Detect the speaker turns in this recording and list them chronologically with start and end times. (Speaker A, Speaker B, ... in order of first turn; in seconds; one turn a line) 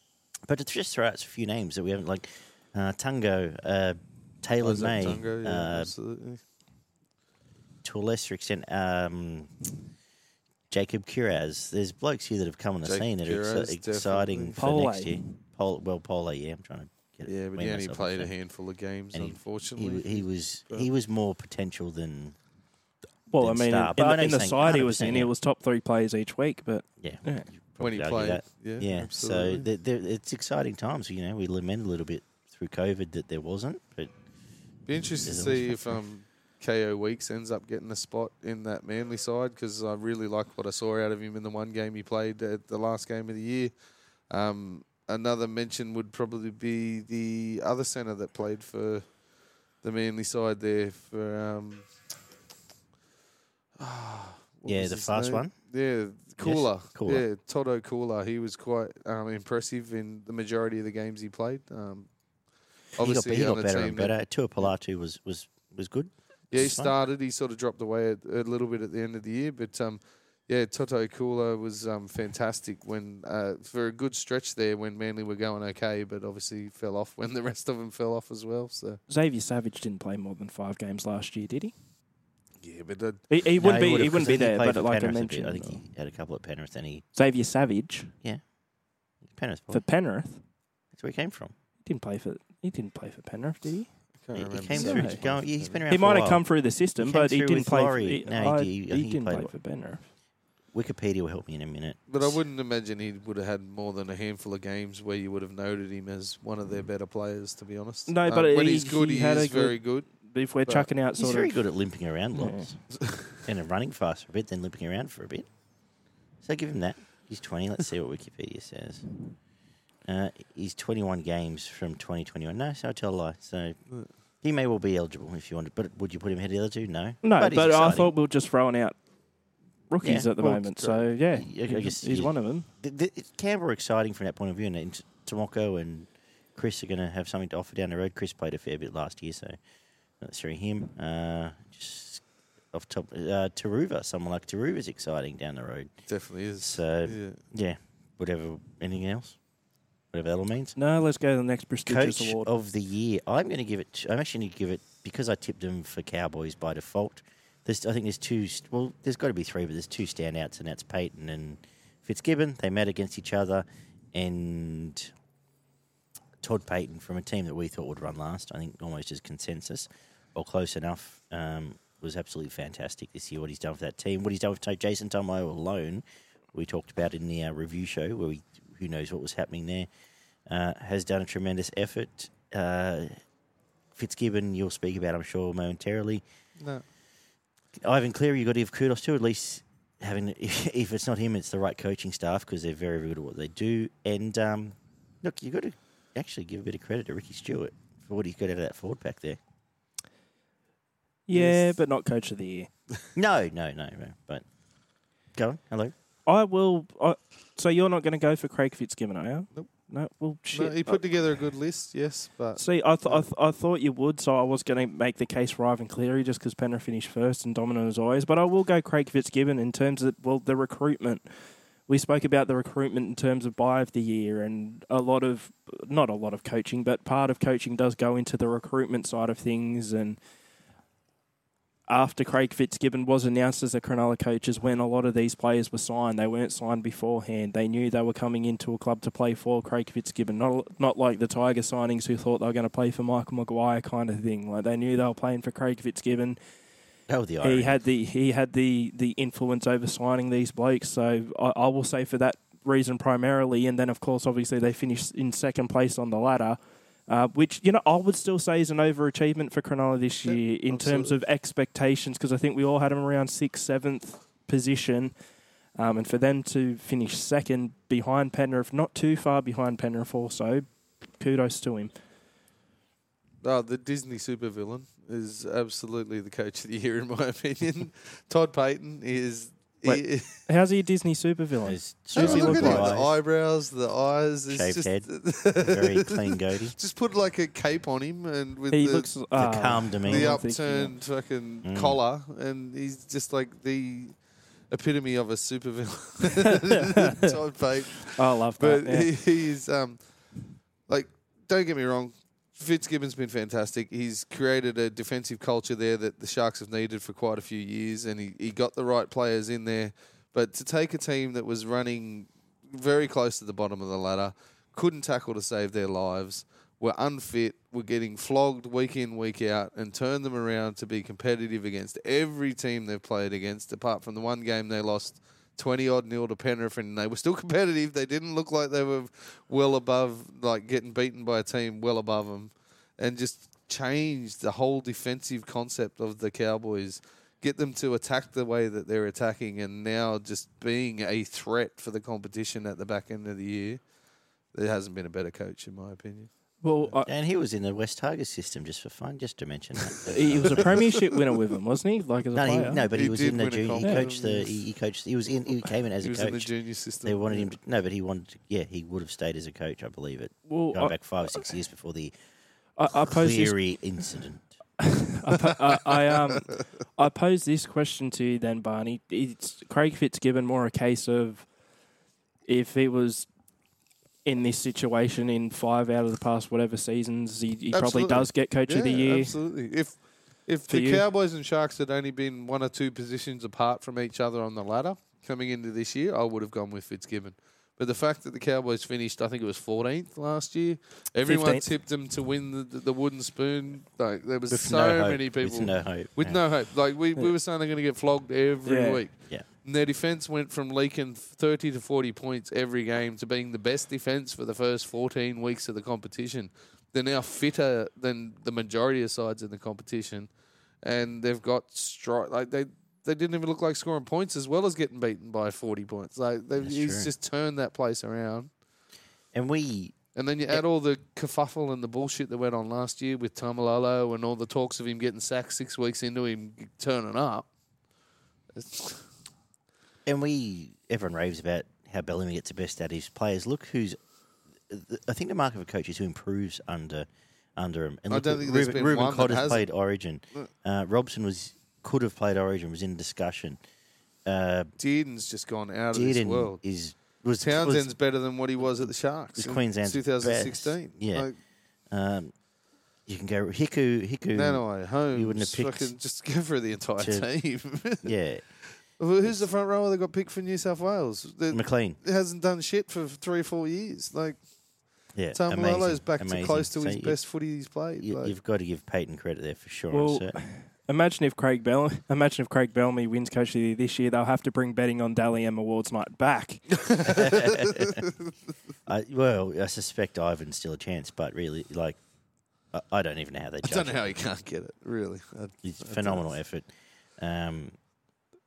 Speaker A: 0.5-5.9
Speaker B: 4.6-6.4
Speaker A: 7.8-9.5
Speaker A: 10.7-18.3
Speaker B: 12.8-14.6
Speaker C: 14.6-15.4
Speaker B: 17.3-20.9
Speaker A: 19.1-22.4
Speaker C: 23.3-27.5
Speaker A: 23.4-25.3
Speaker A: 27.0-34.1
Speaker B: 27.8-29.7
Speaker B: 34.9-43.7
Speaker A: 35.2-36.0
Speaker B: 44.3-49.2
Speaker B: 49.8-51.9
Speaker B: 53.8-62.1
Speaker A: 54.7-55.6
Speaker A: 56.4-57.3
Speaker B: 63.0-64.1
Speaker A: 63.0-67.0
Speaker B: 66.5-79.0
Speaker C: 79.1-81.7
Speaker B: 82.6-83.3
Speaker C: 83.3-85.8
Speaker A: 83.6-87.0
Speaker C: 87.2-88.1
Speaker A: 89.2-89.9
Speaker C: 89.7-90.4
Speaker A: 90.9-91.5
Speaker C: 91.8-93.9
Speaker B: 94.2-95.8
Speaker A: 94.3-99.5
Speaker C: 94.7-95.2
Speaker C: 95.9-100.1
Speaker A: 100.7-102.4
Speaker B: 102.1-110.9
Speaker C: 108.1-111.6
Speaker A: 111.2-112.9
Speaker C: 112.3-112.7
Speaker B: 113.0-113.4
Speaker A: 113.4-115.5
Speaker A: 116.4-119.1
Speaker A: 120.0-123.8
Speaker A: 124.4-128.1
Speaker C: 127.2-129.0
Speaker C: 129.9-132.7
Speaker A: 130.0-139.6
Speaker A: 140.2-145.9
Speaker B: 146.1-147.4
Speaker A: 146.6-149.4
Speaker A: 150.1-150.8
Speaker C: 150.8-152.5
Speaker A: 151.9-165.1
Speaker A: 166.4-179.9
Speaker A: 180.5-183.2
Speaker A: 183.9-186.2
Speaker B: 186.6-186.8
Speaker A: 187.8-199.4
Speaker C: 201.3-202.7
Speaker B: 201.3-201.7
Speaker A: 203.2-204.4
Speaker A: 205.3-205.9
Speaker C: 206.3-211.0
Speaker B: 210.5-213.3
Speaker C: 212.6-221.3
Speaker C: 221.9-230.2
Speaker C: 231.9-246.4
Speaker A: 247.1-247.8
Speaker C: 247.4-265.1
Speaker B: 260.2-261.1
Speaker C: 265.8-271.9
Speaker B: 273.4-280.4
Speaker C: 279.9-282.9
Speaker A: 281.7-283.1
Speaker B: 282.2-289.1
Speaker A: 284.5-286.8
Speaker C: 288.7-290.9
Speaker A: 289.4-290.4
Speaker B: 290.1-294.2
Speaker A: 291.6-292.0
Speaker B: 294.7-300.0
Speaker C: 296.5-297.3
Speaker C: 298.0-299.1
Speaker B: 300.9-343.8
Speaker B: 344.5-346.3
Speaker C: 346.6-347.1
Speaker A: 347.0-350.9
Speaker C: 350.1-352.8
Speaker A: 352.4-356.5
Speaker B: 352.8-354.6
Speaker B: 356.0-357.5
Speaker A: 357.1-362.1
Speaker C: 360.5-360.9
Speaker C: 362.8-363.6
Speaker A: 362.9-364.5
Speaker C: 364.8-371.5
Speaker B: 366.1-366.5
Speaker C: 372.4-373.3
Speaker C: 374.2-379.3
Speaker B: 377.7-410.3
Speaker C: 380.7-381.1
Speaker C: 391.2-391.7
Speaker A: 394.5-396.4
Speaker C: 398.6-399.0
Speaker B: 410.8-418.5
Speaker A: 416.6-417.1
Speaker A: 419.3-420.0
Speaker B: 420.1-427.5
Speaker B: 428.5-429.1
Speaker A: 430.1-434.0
Speaker A: 434.7-443.6
Speaker B: 438.1-439.7
Speaker A: 444.3-444.7
Speaker B: 444.8-446.6
Speaker A: 445.9-447.9
Speaker B: 447.4-451.4
Speaker A: 449.4-451.3
Speaker A: 451.9-452.3
Speaker A: 453.1-455.9
Speaker B: 454.3-458.1
Speaker A: 457.0-457.3
Speaker A: 458.0-458.4
Speaker B: 459.0-464.4
Speaker A: 461.5-462.0
Speaker A: 465.2-467.2
Speaker B: 465.3-468.3
Speaker A: 468.0-470.4
Speaker C: 469.9-476.8
Speaker B: 476.8-478.1
Speaker A: 477.1-478.0
Speaker A: 478.9-482.0
Speaker A: 482.7-484.0
Speaker B: 483.6-486.3
Speaker A: 485.6-487.8